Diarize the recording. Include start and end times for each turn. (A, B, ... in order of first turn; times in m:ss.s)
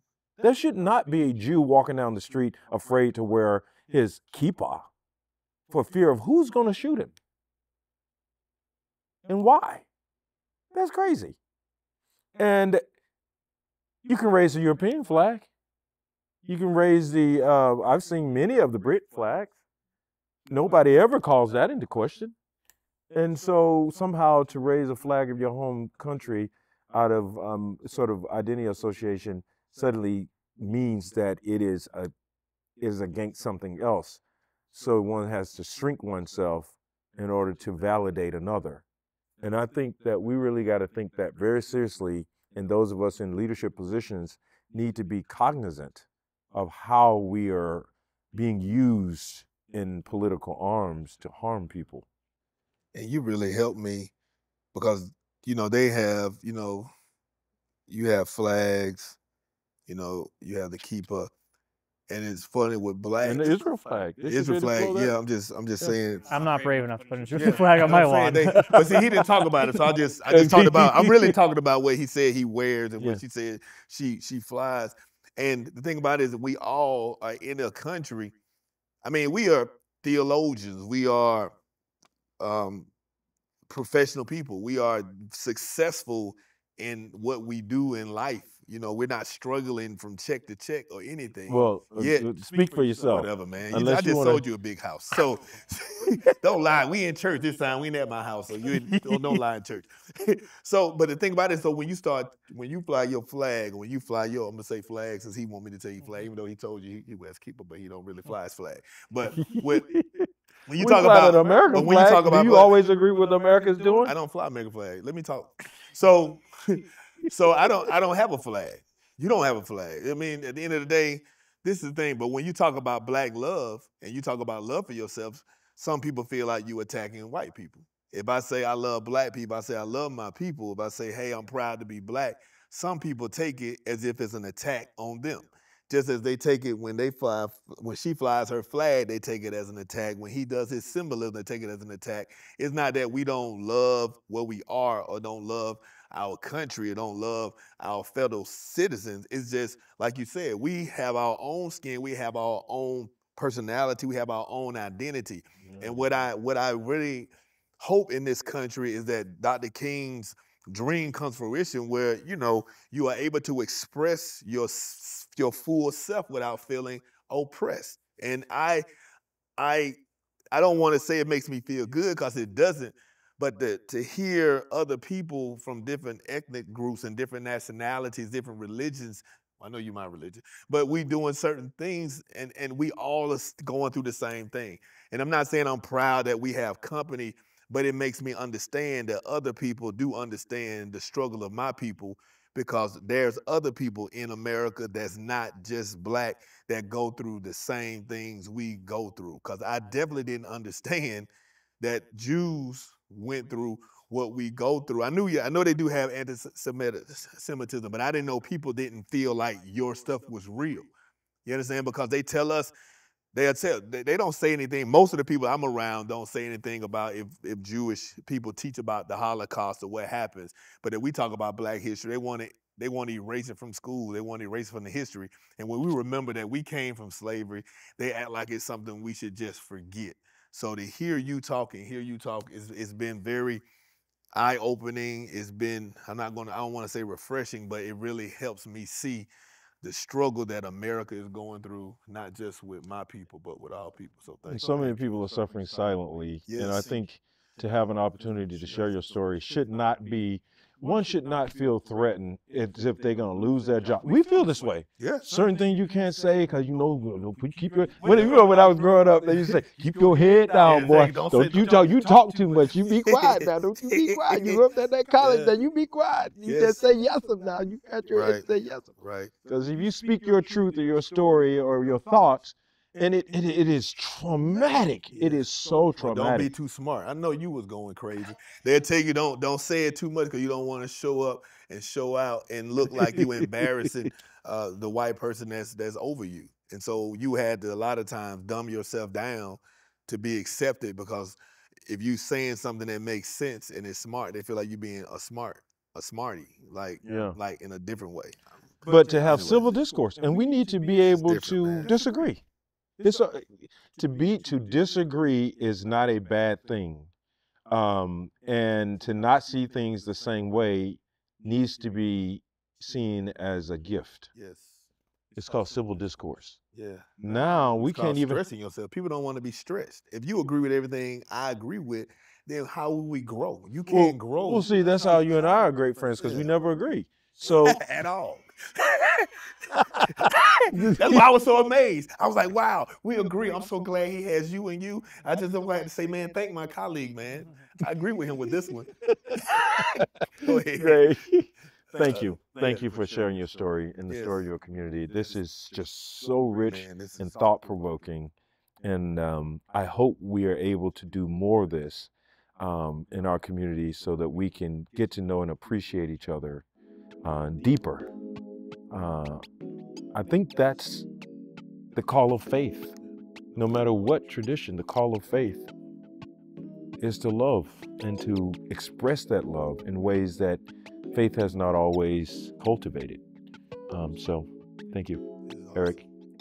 0:00.4-0:04.9 A
0:05.7-0:07.1 A
0:09.3-0:09.9 A
0:10.7-0:11.4 A
0:12.4-0:12.8 A
0:14.0-0:15.5 A
0:16.4-0:19.5 A
0:20.5-0:22.3 A
0:23.1-0:32.1 A
0:32.8-0:34.2 A
0:34.7-0:38.8 A
0:39.4-0:52.0 A
0:52.9-0:54.1 B
0:54.7-0:56.9 B
0:57.9-0:59.2 B
0:59.9-1:01.3 B
1:02.1-1:03.6 B
1:03.2-1:05.1 A
1:04.2-1:06.4 B
1:06.3-1:08.7 C
1:07.3-1:18.4 B
1:08.6-1:09.7 A
1:10.3-1:11.3 A
1:19.0-1:21.6 B
1:22.4-1:22.9 B
1:23.7-1:49.9 B
1:31.5-1:34.4 A
1:38.7-1:39.4 A
1:49.4-1:54.1 A
1:50.7-1:52.7 B
1:54.0-2:48.9 B
2:35.6-2:36.2 A
2:49.6-2:50.0 B
2:50.5-3:21.3 B
3:21.8-3:30.9 B
3:31.4-3:32.7 B
3:33.3-3:53.6 B
3:54.3-3:59.3 B
3:59.8-4:05.0 B
4:04.5-4:36.5 A
4:06.5-4:07.0 B
4:15.0-4:15.3 B
4:18.1-4:18.4 B
4:20.6-4:22.0 B
4:23.0-4:24.7 B
4:25.2-4:25.6 B
4:26.4-4:26.8 B
4:28.1-4:28.4 B
4:29.0-4:29.3 B
4:35.1-4:35.4 B
4:36.0-4:59.7 B
4:42.9-4:43.9 A
4:57.0-4:57.4 A
4:58.8-5:02.4 A
5:01.2-5:01.9 B
5:03.0-5:07.1 A
5:07.7-5:14.3 A
5:14.3-5:14.8 B
5:15.3-5:16.6 A
5:16.7-5:25.4 B
5:17.2-5:18.4 A
5:23.9-5:27.8 A
5:26.2-5:26.5 B
5:27.6-5:41.1 B
5:30.7-5:31.2 A
5:39.3-5:56.6 A
5:41.9-5:42.9 B
5:44.1-5:44.4 B
5:46.6-5:47.6 B
5:57.2-5:58.1 A
5:58.9-5:59.4 A
6:00.1-6:01.0 A
6:01.9-6:02.9 A
6:03.5-6:05.7 A
6:07.0-6:13.2 A
6:13.9-6:15.2 A
6:15.4-6:16.0 B
6:15.7-6:16.0 A